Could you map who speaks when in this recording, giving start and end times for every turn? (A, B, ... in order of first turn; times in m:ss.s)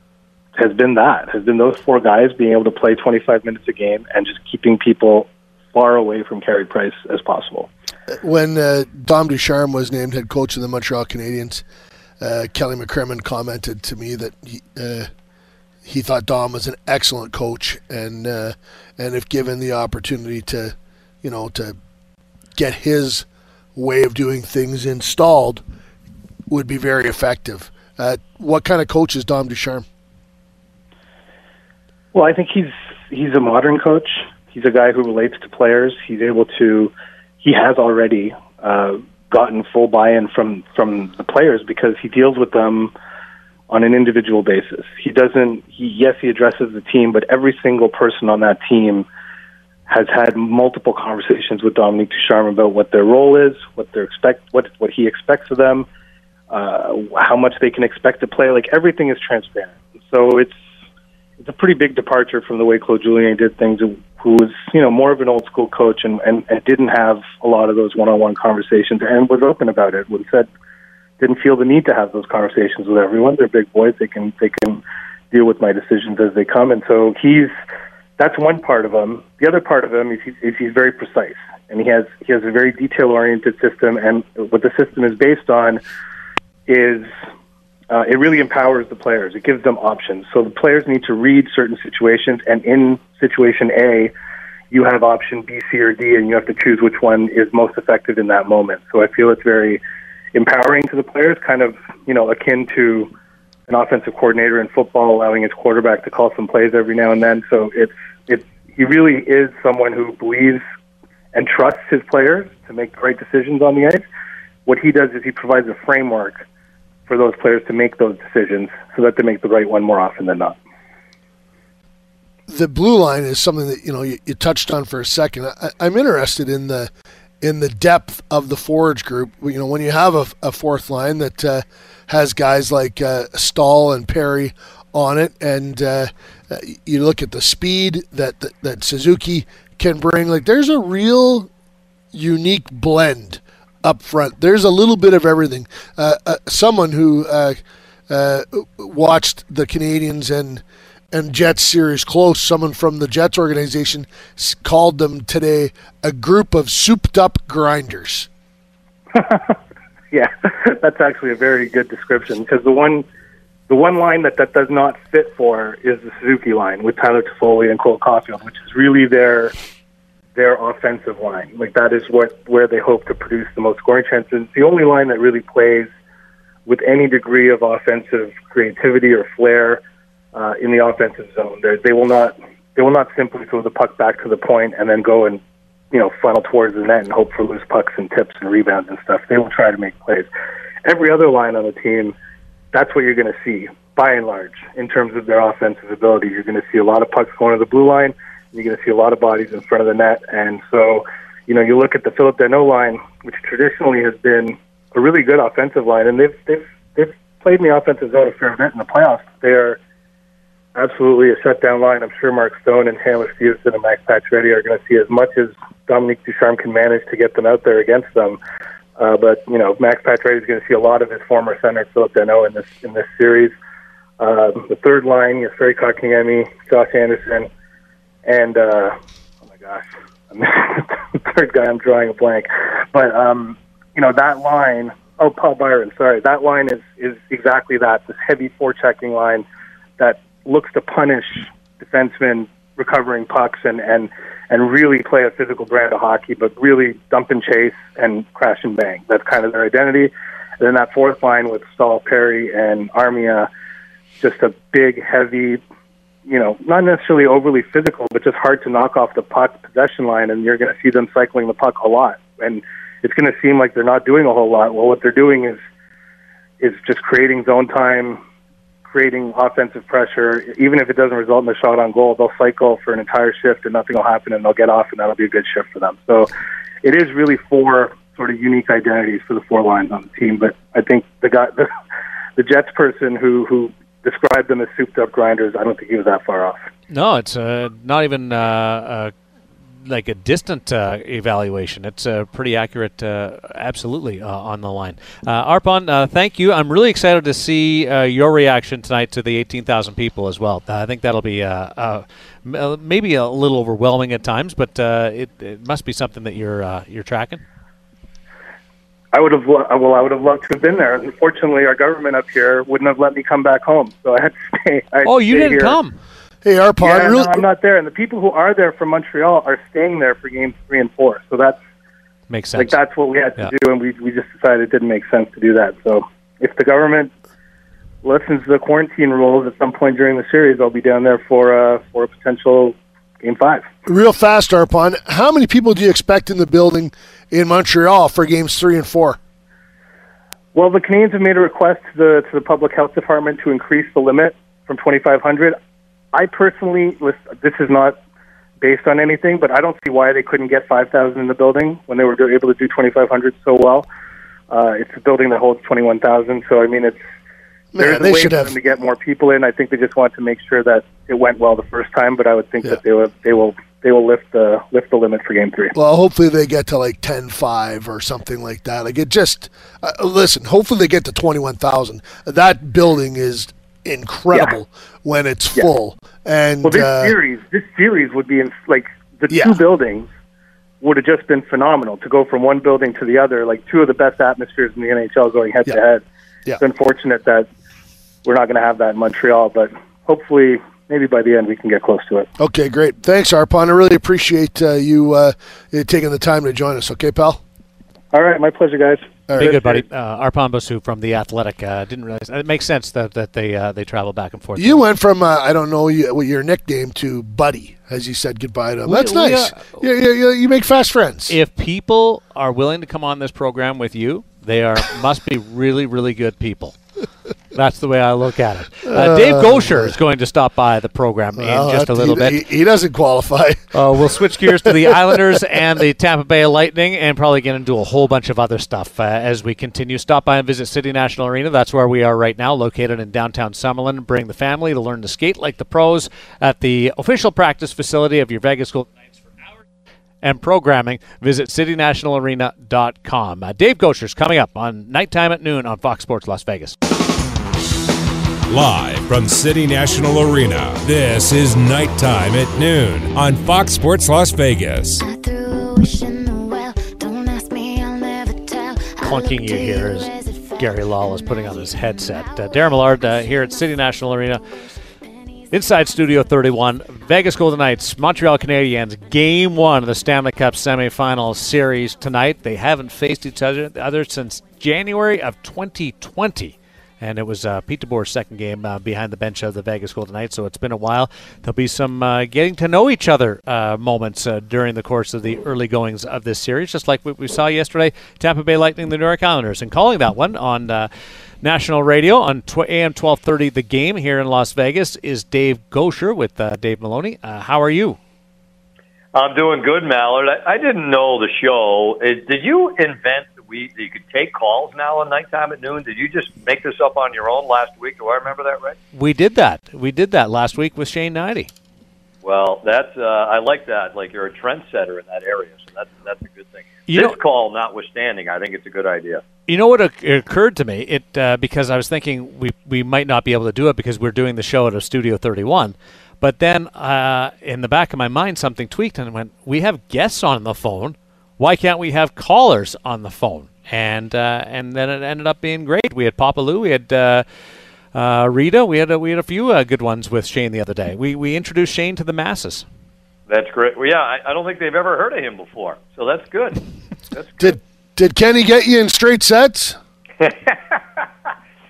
0:00.6-0:07.7 A
0:08.1-0:11.6 B
0:12.2-0:15.1 B
0:15.8-0:21.8 B
0:22.5-0:25.6 B
0:26.5-0:29.8 B
0:32.1-0:42.9 A
0:43.7-0:49.0 A
0:49.9-0:55.9 A
0:56.5-1:00.6 A
1:01.4-1:10.5 A
1:11.2-1:17.5 A
1:18.2-1:25.8 A
1:26.7-1:27.1 A
1:27.9-1:34.1 A
1:34.7-1:39.8 A
1:40.3-1:43.1 A
1:43.7-1:50.6 A
1:51.3-1:54.0 A
1:54.6-1:56.4 A
1:57.1-2:00.6 A
2:02.5-2:06.9 B
2:07.4-2:21.5 B
2:22.1-2:27.6 B
2:28.1-2:38.3 B
2:39.1-2:39.5 A
2:40.1-2:43.0 A
2:43.7-2:49.5 A
2:50.3-2:55.9 A
2:56.6-2:59.8 A
3:00.3-3:05.4 A
3:05.9-3:10.3 A
3:10.8-3:12.1 A
3:12.7-3:29.8 A
3:30.7-3:38.4 A
3:39.0-3:43.5 A
3:44.2-3:47.5 A
3:48.2-3:49.0 A
3:49.5-3:59.4 A
4:00.0-4:13.5 A
4:14.2-4:15.6 A
4:16.2-4:25.6 A
4:26.6-4:28.2 A
4:28.9-4:36.3 A
4:36.8-4:41.7 A
4:42.4-4:46.6 A
4:46.9-4:49.1 C
4:49.8-5:07.4 C
5:09.1-5:15.8 A
5:15.0-5:16.0 C
5:16.4-5:17.4 B
5:16.8-5:21.6 A
5:22.3-5:22.8 C
5:22.6-5:27.1 A
5:28.0-5:33.7 A
5:33.8-5:39.2 B
5:40.5-5:45.6 A
5:46.1-5:48.0 A
5:48.6-5:53.8 A
5:54.5-5:57.0 A
5:57.7-5:58.5 B
5:57.8-6:05.7 A
6:05.7-6:17.1 B
6:16.6-6:20.1 A
6:19.3-6:19.6 B
6:20.8-6:26.0 A
6:26.6-6:27.5 A
6:28.2-6:32.3 A
6:32.4-6:37.4 B
6:38.1-6:39.1 A
6:39.3-6:39.8 B
6:39.4-6:44.8 C
6:44.6-6:51.3 B
6:48.8-6:49.8 C
6:51.3-6:56.8 C
6:57.5-7:02.4 C
6:58.9-6:59.9 B
7:01.4-7:05.2 B
7:03.7-7:18.9 C
7:20.2-7:26.8 C
7:28.5-7:35.0 D
7:35.0-7:45.8 E
7:39.0-7:44.4 C
7:45.5-8:10.9 C
8:11.4-8:18.0 C
8:19.1-8:28.8 F
8:28.9-8:31.5 C
8:32.2-8:39.2 F
8:36.9-8:37.2 C
8:39.5-8:57.2 C
8:57.9-9:02.6 C
9:03.3-9:07.6 F
9:07.4-9:09.8 B
9:10.2-9:11.0 F